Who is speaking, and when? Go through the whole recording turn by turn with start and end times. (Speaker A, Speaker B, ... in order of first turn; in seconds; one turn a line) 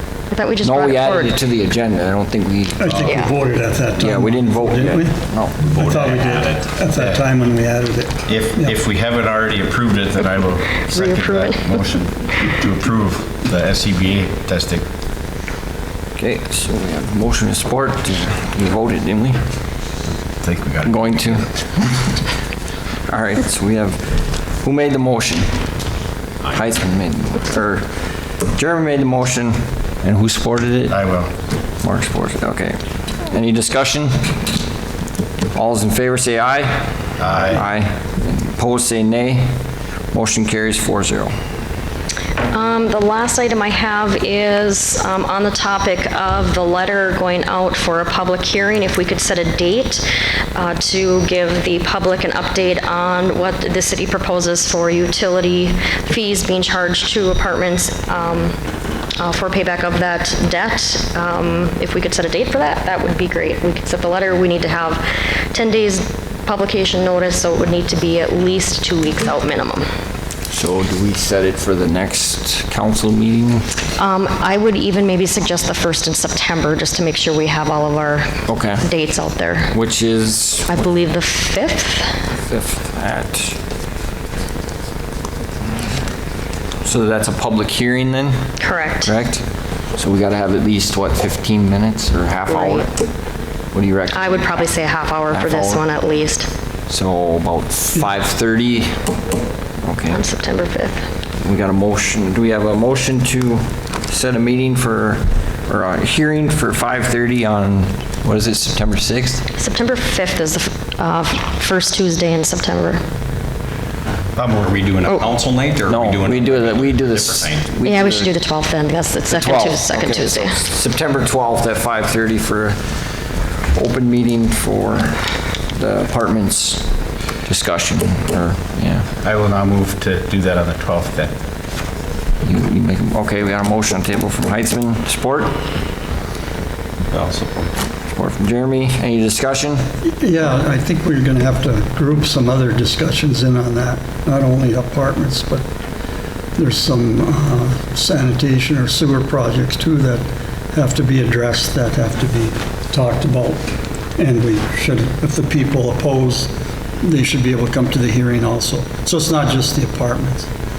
Speaker A: 0.3-1.4
Speaker B: 0.6-3.1
Speaker C: 2.8-8.8
Speaker A: 3.0-3.3
Speaker B: 4.0-5.6
Speaker D: 5.6-6.6
Speaker E: 8.3-14.8
Speaker A: 10.9-11.8
Speaker B: 16.2-19.4
Speaker E: 20.4-21.0
Speaker B: 20.8-22.0
Speaker B: 23.1-25.5
Speaker B: 26.4-27.9
Speaker B: 28.5-31.0
Speaker E: 30.9-31.3
Speaker B: 31.8-34.3
Speaker B: 35.5-39.5
Speaker E: 37.2-37.6
Speaker B: 40.1-41.3
Speaker A: 42.5-58.5
Speaker A: 59.2-69.9
Speaker B: 70.5-73.7
Speaker A: 74.0-79.7
Speaker B: 78.5-78.8
Speaker B: 79.7-80.8
Speaker A: 80.7-82.2
Speaker B: 82.5-83.6
Speaker B: 86.8-88.4
Speaker A: 88.6-89.1
Speaker B: 89.0-89.4
Speaker B: 89.9-92.9
Speaker A: 92.5-92.9
Speaker B: 93.7-94.6
Speaker A: 94.1-96.5
Speaker B: 95.3-95.8
Speaker B: 96.9-99.0
Speaker B: 99.8-100.2
Speaker A: 100.1-101.0
Speaker B: 101.4-109.4
Speaker A: 109.5-113.0
Speaker D: 114.3-117.6
Speaker B: 115.9-118.3
Speaker A: 117.8-120.6
Speaker B: 119.3-123.0
Speaker B: 123.7-126.9
Speaker B: 127.4-129.1
Speaker E: 129.2-131.3
Speaker B: 132.4-135.6
Speaker E: 137.1-137.4
Speaker B: 138.1-139.8
Speaker C: 140.0-145.6
Speaker C: 146.6-153.6
Speaker C: 154.2-160.5